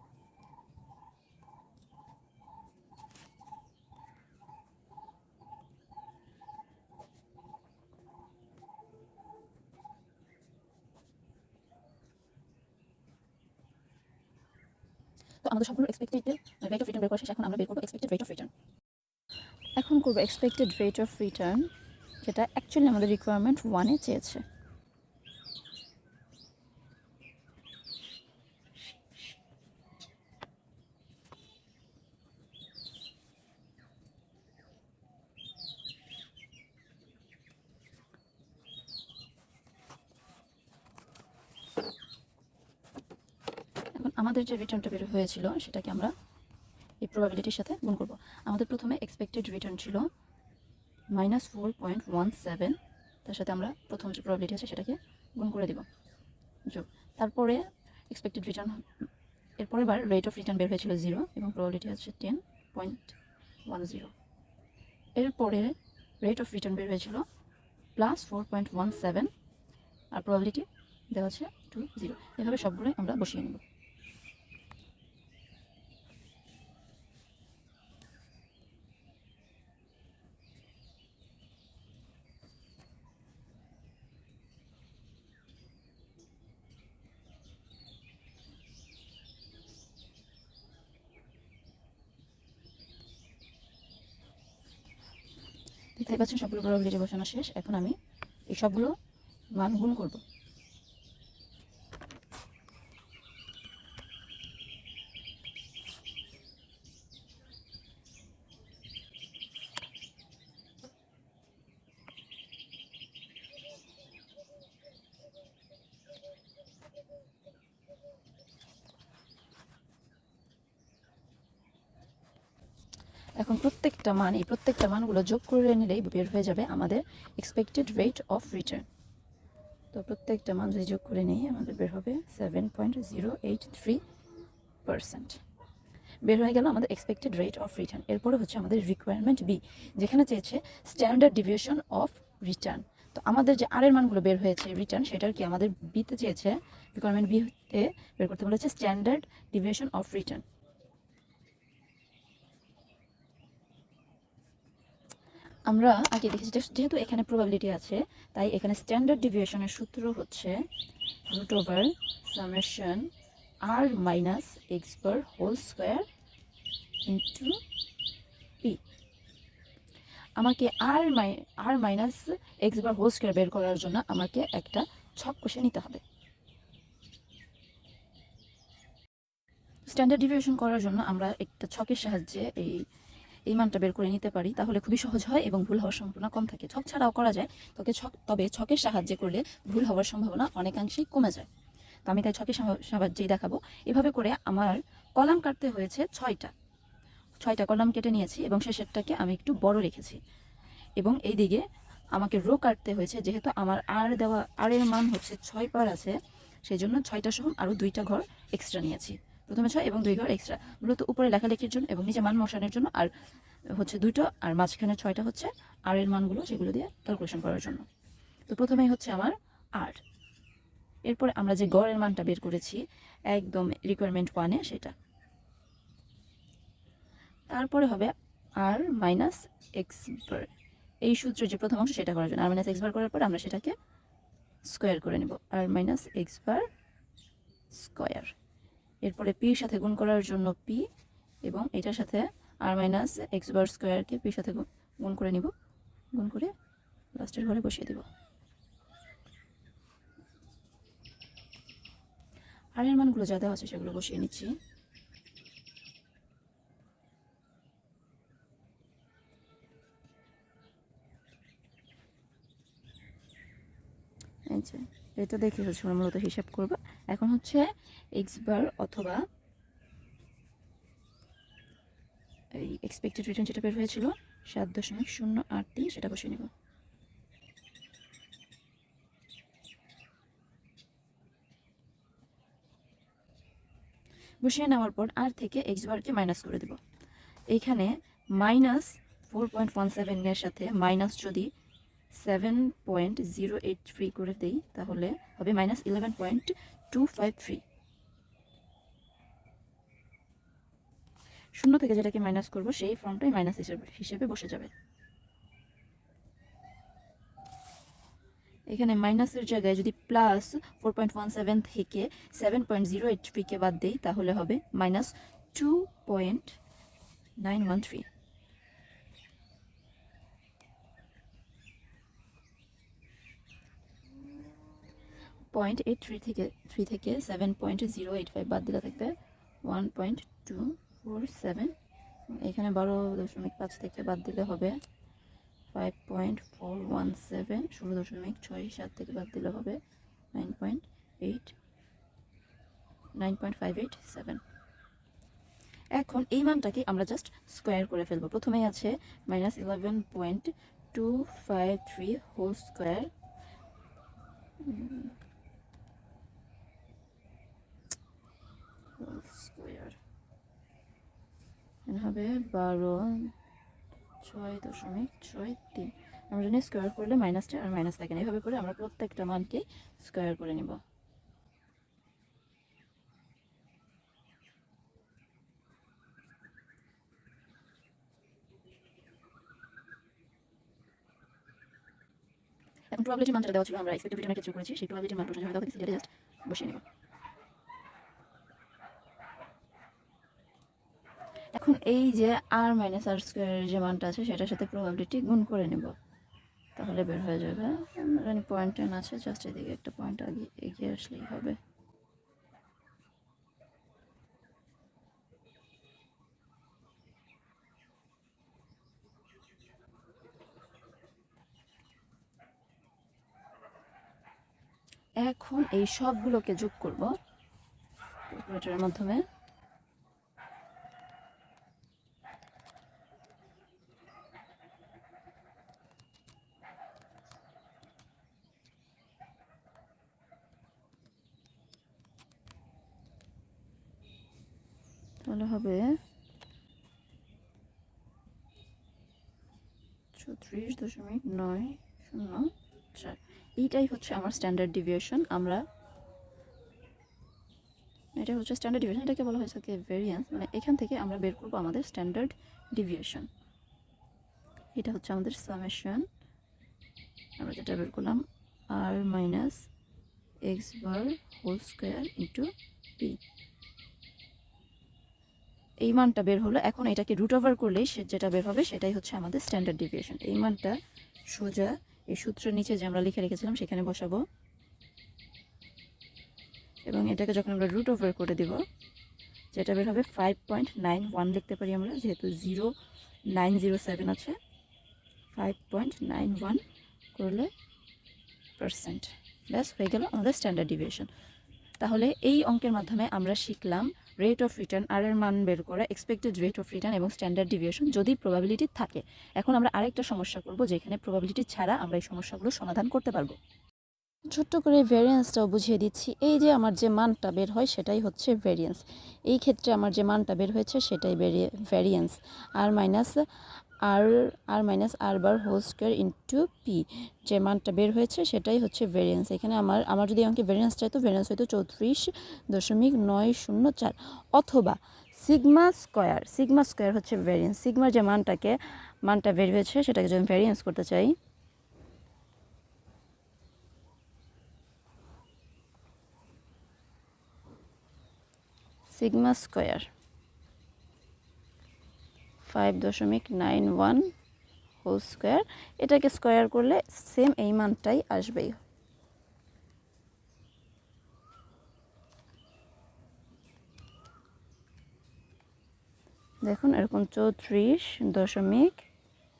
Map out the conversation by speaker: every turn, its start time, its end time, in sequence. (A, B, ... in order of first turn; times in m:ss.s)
0:15.4-0:18.5 A
0:19.8-0:21.7 A
0:22.2-0:24.4 A
0:43.9-0:46.1 A
0:47.0-0:50.0 A
0:51.1-0:55.8 A
0:56.6-0:58.9 A
0:59.6-1:04.1 A
1:05.2-1:07.2 A
1:08.0-1:09.3 A
1:10.1-1:13.6 A
1:36.0-1:37.9 A
1:38.5-1:38.9 A
1:39.5-1:40.2 A
2:03.4-2:08.9 A
2:09.9-2:14.0 A
2:14.8-2:15.4 A
2:16.2-2:30.4 A
2:35.7-2:40.6 A
2:41.3-2:43.1 A
2:43.6-2:46.0 A
2:47.0-2:47.6 A
2:50.4-2:56.0 A
2:59.8-3:02.8 A
3:03.5-3:11.5 A
3:12.1-3:16.5 A
3:17.4-3:20.2 A
3:21.0-3:33.1 A
3:33.7-3:37.8 A
3:38.5-3:40.0 A
3:41.0-3:42.8 A
3:43.3-3:44.9 A
3:47.5-3:50.5 A
3:51.0-3:53.7 A
3:54.7-3:56.6 A
3:57.8-3:58.3 A
3:59.0-4:00.8 A
4:01.4-4:05.5 A
4:06.1-4:06.5 A
4:07.2-4:08.0 A
4:12.8-4:14.5 A
4:24.5-4:29.2 A
4:32.5-4:36.5 A
4:44.4-4:46.8 A
4:47.5-4:51.5 A
4:52.1-4:57.6 A
5:01.6-5:04.7 A
5:08.7-5:16.6 A
5:17.4-5:18.1 A
5:25.5-5:31.7 A
5:32.3-5:34.8 A
5:35.7-5:39.8 A
5:40.3-5:41.5 A
5:43.2-5:44.4 A
5:46.0-5:53.1 A
5:54.6-5:55.1 A
5:59.0-6:00.0 A
6:01.9-6:03.3 A
6:04.2-6:10.8 A
6:22.9-6:26.8 A
6:31.5-6:35.9 A
6:36.8-6:41.6 A
6:55.2-6:57.1 A
6:58.3-6:59.2 A
7:15.2-7:16.0 A
7:20.1-7:25.6 A
7:28.2-7:33.3 A
7:34.7-7:36.0 A
7:37.4-7:39.7 A
7:40.4-7:42.5 A
7:45.8-7:50.8 A
7:51.3-7:54.2 A
7:56.8-7:58.6 A
7:59.5-8:02.7 A
8:03.3-8:04.4 A
8:05.3-8:06.6 A
8:07.1-8:07.5 A
8:08.6-8:11.1 A
8:11.8-8:23.4 A
8:24.3-8:33.2 A
8:33.9-8:51.1 A
8:58.9-8:59.9 A
9:02.4-9:04.1 A
9:04.8-9:08.6 A
9:16.4-9:18.8 A